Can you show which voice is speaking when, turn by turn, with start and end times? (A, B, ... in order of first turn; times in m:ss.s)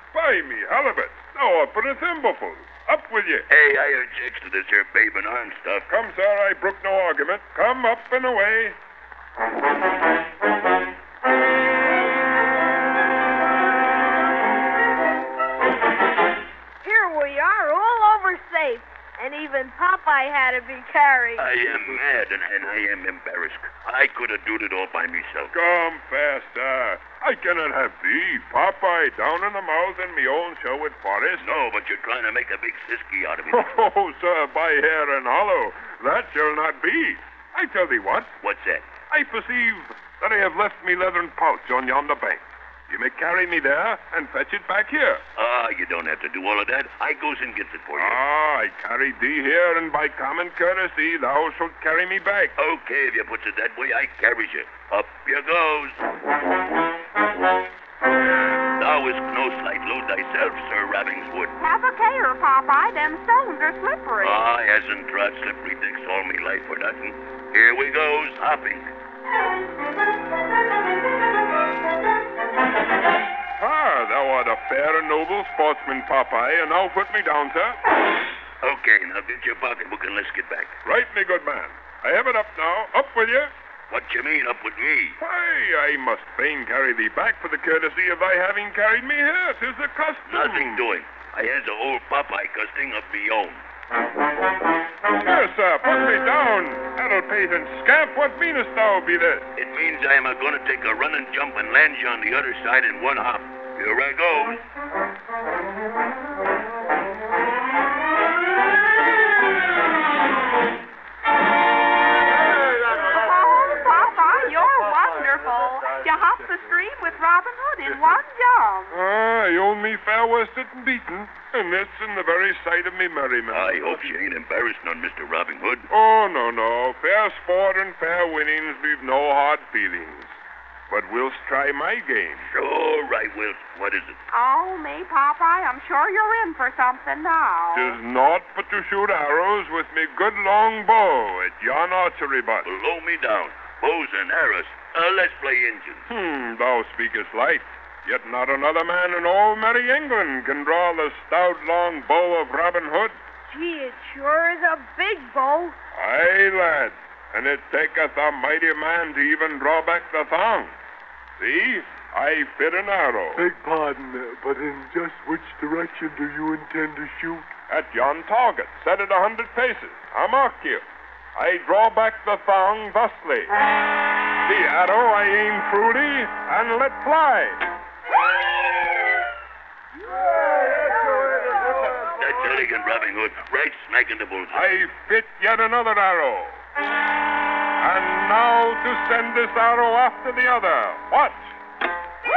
0:00.1-0:03.5 A
0:03.5-0:05.9 B
0:05.9-0:08.8 A
0:16.8-0:21.5 C
0:21.4-0:25.5 B
0:25.5-0:31.4 A
0:31.4-0:33.9 B
0:33.5-0:38.3 A
0:38.4-0:39.0 B
0:39.1-0:45.2 A
0:45.4-0:48.2 B
0:48.0-0:52.5 A
0:52.6-0:56.0 B
0:58.8-1:01.5 B
1:01.6-1:04.4 D
1:04.2-1:08.9 B
1:13.6-1:17.8 A
1:18.6-1:20.7 B
1:20.8-1:23.5 A
1:23.9-1:25.2 B
1:25.2-1:30.9 A
1:30.3-1:33.6 B
1:35.2-1:39.5 A
1:39.6-1:44.6 B
1:52.9-1:58.9 D
1:58.9-2:04.1 A
2:03.5-2:05.9 B
2:05.9-2:10.4 A
2:10.9-2:12.5 A
2:12.4-2:14.2 B
2:14.3-2:18.0 D
2:17.7-2:22.7 A
2:22.6-2:26.1 B
2:26.1-2:33.2 A
2:33.5-2:35.8 C
2:35.9-2:40.7 A
2:41.4-2:43.4 A
2:43.4-2:47.5 E
2:47.7-2:50.8 A
2:51.4-2:53.5 A
2:54.5-2:57.6 A
3:02.2-3:04.8 B
3:04.5-3:06.6 A
3:07.8-3:11.5 A